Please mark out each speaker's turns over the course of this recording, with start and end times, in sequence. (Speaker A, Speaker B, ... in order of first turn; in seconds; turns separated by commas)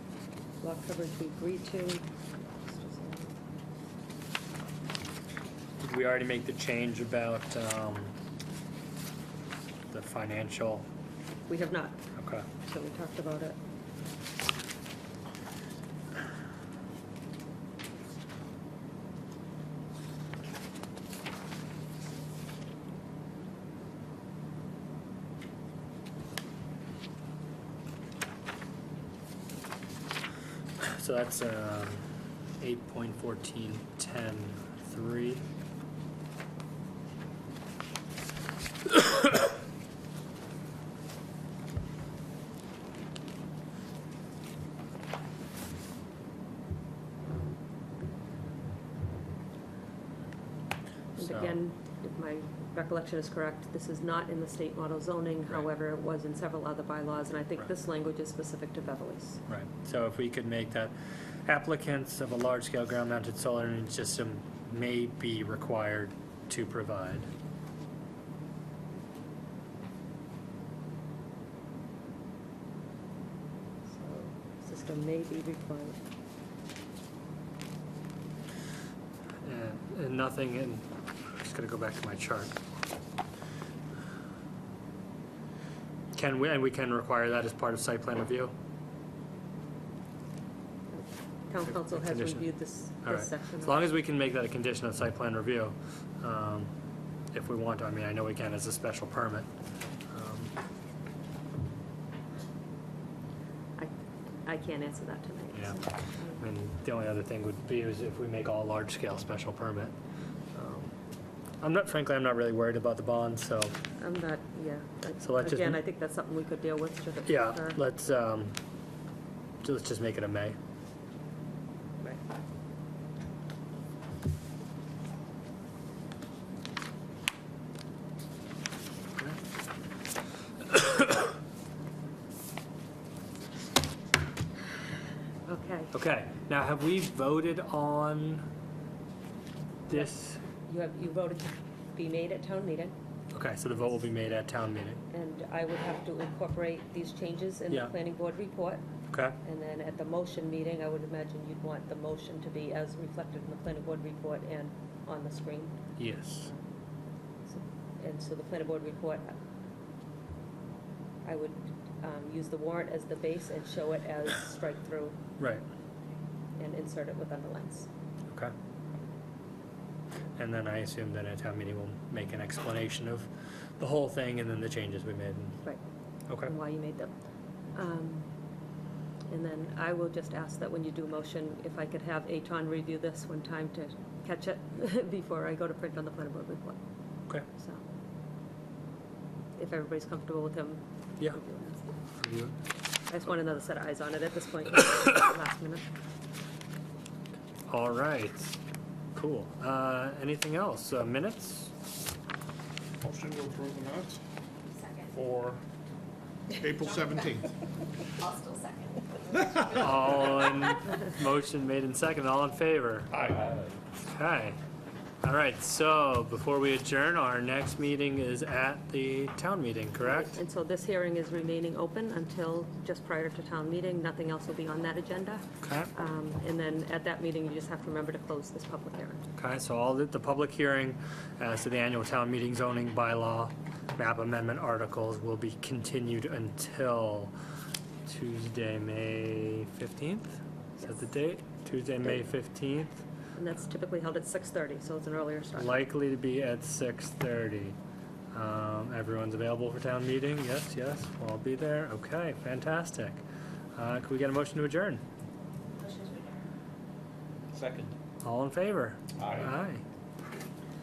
Speaker A: 0.6-2.0, Speaker A: 2.6-3.3, Speaker B: 5.8-8.1, Speaker B: 9.9-10.8, Speaker A: 11.5-12.0, Speaker B: 12.2-12.4, Speaker A: 12.6-13.6, Speaker B: 30.8-32.0, Speaker B: 32.6-35.4, Speaker B: 51.2-51.5, Speaker A: 51.2-59.4, Speaker B: 59.5-60.9, Speaker B: 61.5-67.3, Speaker A: 73.9-76.0, Speaker B: 79.4-82.5, Speaker B: 86.1-88.5, Speaker A: 90.9-93.8, Speaker B: 91.7-92.5, Speaker B: 93.0-96.7, Speaker B: 97.3-99.5, Speaker B: 100.1-100.5, Speaker A: 104.5-106.4, Speaker B: 106.4-109.9, Speaker B: 110.5-110.9, Speaker B: 111.6-113.7, Speaker A: 114.0-117.8, Speaker B: 115.2-115.8, Speaker B: 117.2-118.5, Speaker B: 119.6-120.6, Speaker B: 130.7-131.1, Speaker A: 135.5-135.9, Speaker B: 135.9-138.4, Speaker B: 139.9-140.4, Speaker A: 140.7-142.9, Speaker B: 143.3-145.0, Speaker A: 145.1-148.8, Speaker B: 149.1-149.3, Speaker A: 149.4-155.8, Speaker B: 156.0-156.5, Speaker A: 157.5-159.4, Speaker A: 161.2-165.2, Speaker A: 166.6-167.9, Speaker B: 170.4-173.3, Speaker B: 173.8-175.6, Speaker A: 176.4-177.1, Speaker A: 177.7-178.3, Speaker A: 179.3-186.8, Speaker A: 187.5-187.8, Speaker A: 189.6-191.9, Speaker B: 192.2-192.5, Speaker A: 193.1-195.8, Speaker B: 197.7-198.6, Speaker B: 199.1-201.7, Speaker C: 203.0-204.2, Speaker D: 204.7-205.1, Speaker C: 205.1-205.6, Speaker C: 206.5-207.5, Speaker D: 208.2-209.9, Speaker B: 209.6-213.1, Speaker C: 213.1-213.5, Speaker B: 214.1-214.6, Speaker B: 215.2-220.3, Speaker A: 220.1-229.2, Speaker B: 225.6-225.9, Speaker B: 229.4-237.3, Speaker B: 238.1-243.0, Speaker A: 243.3-245.8, Speaker B: 245.6-247.8, Speaker B: 248.3-253.2, Speaker B: 253.7-255.0, Speaker D: 255.8-256.3, Speaker B: 258.2-259.8, Speaker C: 259.2-259.5